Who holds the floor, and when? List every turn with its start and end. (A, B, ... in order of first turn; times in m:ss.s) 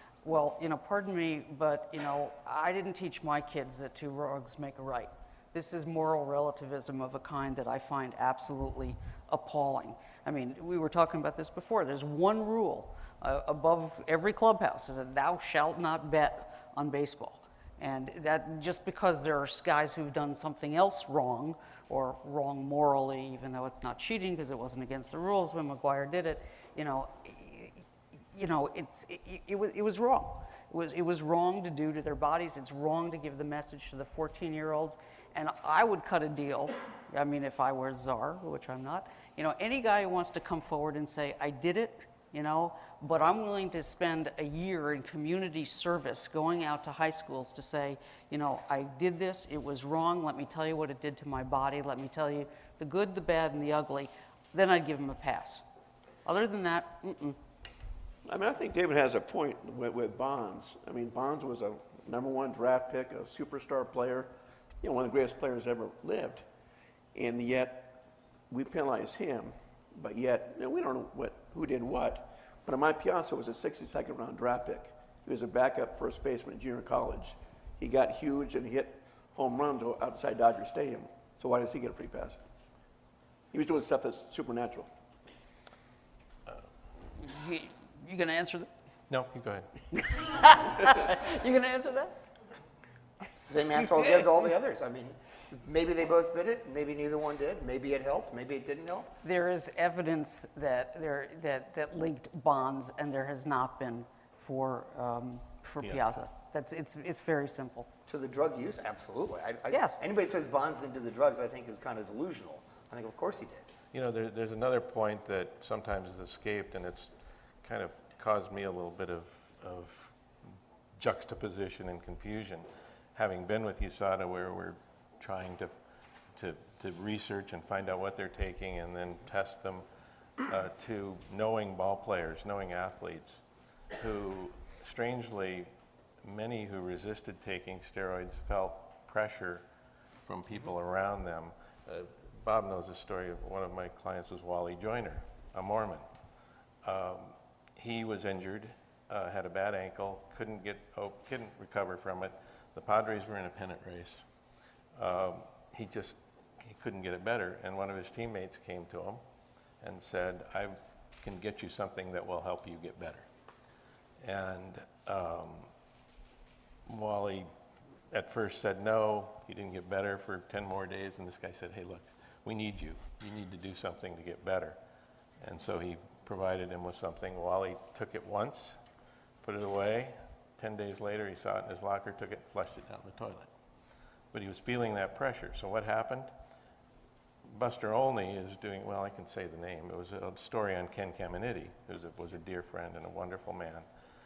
0:00.2-0:55.6 A
0:56.2-0:57.4 A
0:58.2-1:04.3 B
1:04.8-1:06.4 B
1:07.1-1:08.0 B
1:08.5-1:22.4 B
1:23.5-1:24.9 B
1:27.2-1:28.7 A
1:29.1-1:29.7 C
1:29.9-1:32.1 A
1:33.3-1:39.1 D
1:33.8-1:34.1 A
1:39.2-1:47.9 A
1:45.8-1:46.2 C
1:48.1-1:53.7 D
1:49.7-1:50.0 A
1:53.9-1:57.1 C
1:57.6-2:00.2 C
2:01.0-2:05.7 C
2:06.3-2:09.8 C
2:10.4-2:13.4 C
2:13.9-2:15.7 C
2:16.2-2:19.6 C
2:20.2-2:26.0 C
2:26.8-2:34.2 C
2:35.0-2:39.2 C
2:39.8-2:43.3 C
2:44.2-2:45.7 C
2:46.9-2:47.5 C
2:48.1-2:54.8 C
2:55.4-2:58.8 C
2:59.4-3:03.5 C
3:04.3-3:06.3 C
3:07.4-3:13.8 C